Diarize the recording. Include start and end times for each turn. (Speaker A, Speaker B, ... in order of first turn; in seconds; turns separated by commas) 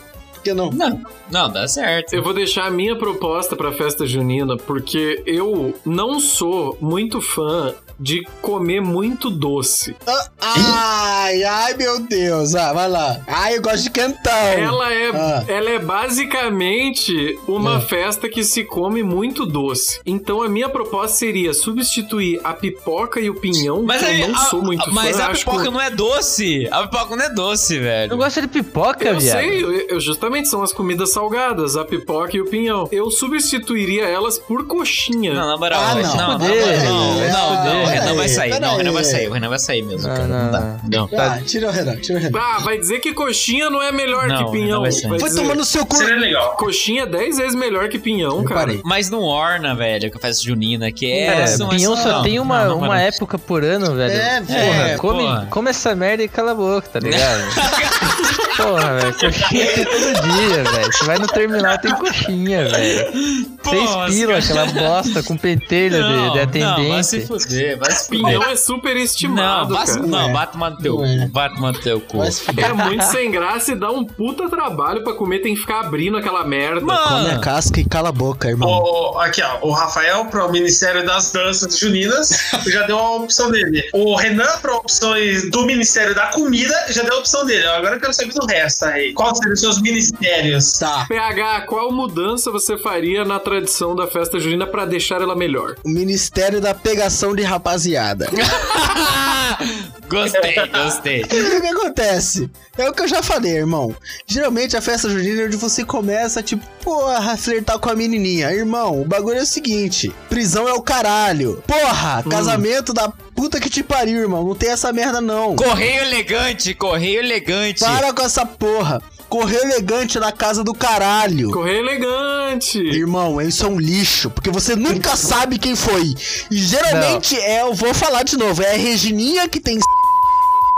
Speaker A: 0.4-0.8, Speaker B: 0.7-2.2, Speaker C: 2.1-9.9, Speaker A: 10.1-15.5, Speaker C: 14.5-25.7, Speaker A: 17.6-17.9, Speaker B: 23.8-28.3, Speaker D: 28.1-29.6, Speaker C: 29.0-35.5, Speaker B: 35.3-41.1, Speaker A: 35.7-39.3, Speaker D: 36.1-38.1, Speaker D: 40.0-41.4, Speaker A: 41.1-42.4, Speaker C: 42.3-45.6, Speaker B: 44.1-45.2, Speaker A: 45.0-46.2, Speaker E: 45.9-46.6, Speaker C: 46.6-48.8, Speaker A: 48.4-48.8, Speaker B: 48.8-53.0, Speaker A: 51.1-52.4, Speaker D: 51.2-57.6, Speaker A: 54.0-55.0, Speaker B: 54.5-55.5, Speaker B: 57.0-58.5, Speaker D: 58.5-63.1, Speaker B: 62.8-65.0, Speaker D: 63.7-67.3, Speaker B: 65.9-68.5, Speaker C: 68.0-70.1, Speaker B: 69.2-72.4, Speaker A: 70.0-71.3, Speaker A: 72.1-72.9, Speaker C: 72.5-77.0, Speaker B: 76.8-77.5, Speaker A: 77.0-78.8, Speaker E: 78.6-90.8, Speaker A: 90.8-91.1, Speaker C: 91.1-95.8, Speaker A: 95.8-98.3, Speaker B: 98.4-101.5, Speaker E: 100.4-100.9, Speaker A: 101.3-115.7, Speaker C: 112.3-112.6, Speaker B: 115.5-118.0, Speaker A: 117.8-121.6, Speaker C: 121.5-123.0, Speaker A: 122.9-129.9, Speaker D: 126.9-127.2